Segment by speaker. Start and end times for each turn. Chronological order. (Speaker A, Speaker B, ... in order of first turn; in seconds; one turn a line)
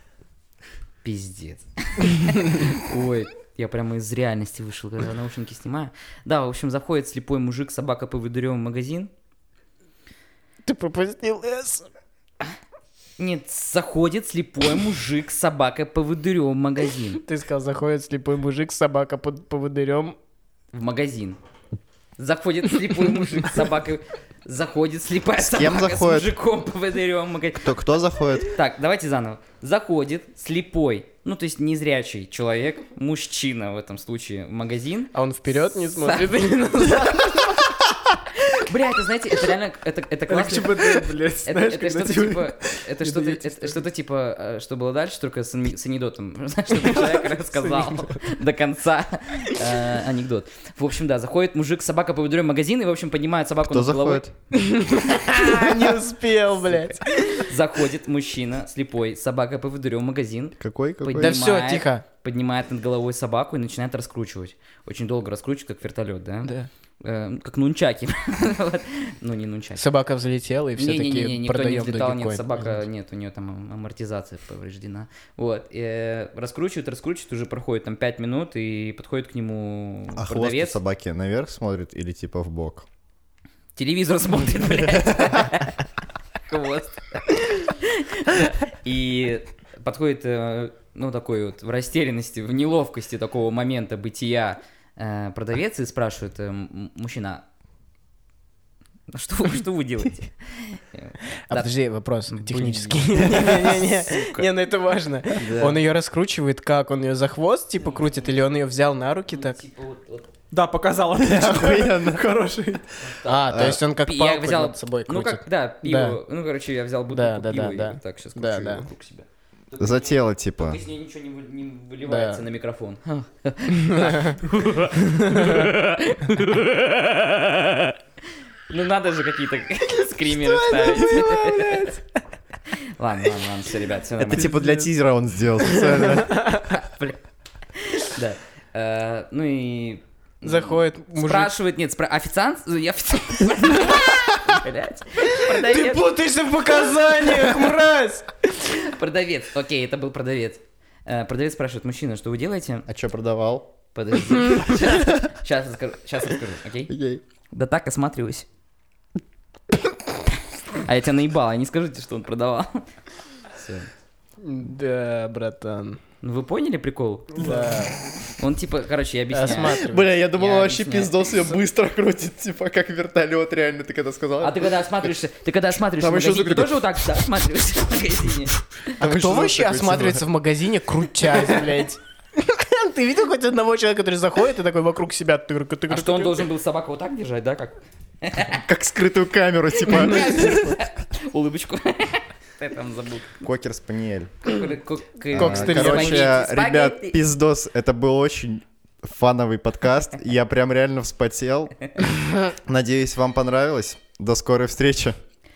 Speaker A: 1.0-9.1
Speaker B: 10.6-11.9
Speaker A: 13.2-17.2
Speaker B: 17.2-20.1
Speaker A: 20.7-21.4
Speaker A: 22.2-27.7
Speaker C: 25.4-26.3
Speaker C: 27.6-28.5
Speaker A: 28.4-35.1
Speaker B: 35.1-37.7
Speaker A: 35.7-36.3
Speaker A: 38.5-54.2
Speaker B: 40.3-43.8
Speaker B: 46.7-48.2
Speaker C: 53.7-54.3
Speaker B: 54.5-57.5
Speaker C: 55.5-56.0
Speaker A: 56.6-69.8
Speaker C: 60.6-61.4
Speaker B: 61.2-62.0
Speaker B: 69.8-72.8
Speaker A: 70.8-80.8
Speaker C: 80.1-82.8
Speaker A: 83.8-85.8
Speaker A: 86.5-97.5
Speaker A: 99.1-101.7
Speaker B: 101.5-109.6
Speaker A: 102.3-104.5
Speaker C: 105.4-105.8
Speaker A: 107.8-108.4
Speaker A: 109.3-110.3
Speaker D: 110.5-113.0
Speaker C: 111.2-112.3
Speaker A: 113.0-127.9
Speaker B: 113.2-116.2
Speaker C: 113.5-113.8
Speaker B: 117.1-118.9
Speaker C: 119.8-120.8
Speaker B: 122.0-122.4
Speaker B: 123.8-124.3
Speaker B: 125.2-125.6
Speaker A: 128.7-131.9
Speaker B: 130.3-132.0
Speaker A: 133.0-134.6
Speaker C: 134.2-136.5
Speaker B: 136.2-136.6
Speaker A: 136.7-137.2
Speaker A: 137.9-146.0
Speaker B: 140.4-141.5
Speaker B: 145.2-148.3
Speaker A: 148.6-152.9
Speaker C: 152.9-153.7
Speaker A: 153.9-156.9
Speaker C: 156.9-157.2
Speaker A: 157.5-158.5
Speaker A: 160.7-162.8
Speaker A: 163.5-163.9
Speaker B: 164.4-166.0
Speaker A: 166.2-167.6
Speaker B: 167.3-168.0
Speaker A: 168.4-169.8
Speaker B: 169.3-170.1
Speaker C: 169.6-175.1
Speaker A: 170.3-171.3
Speaker A: 174.4-178.6
Speaker C: 176.0-177.2
Speaker C: 178.7-180.2
Speaker B: 179.0-186.5
Speaker A: 185.9-188.6
Speaker C: 188.6-190.8
Speaker A: 189.8-193.3
Speaker B: 190.0-190.7
Speaker C: 193.4-194.3
Speaker A: 194.4-197.2
Speaker B: 195.3-196.3
Speaker C: 195.3-201.8
Speaker C: 202.5-205.2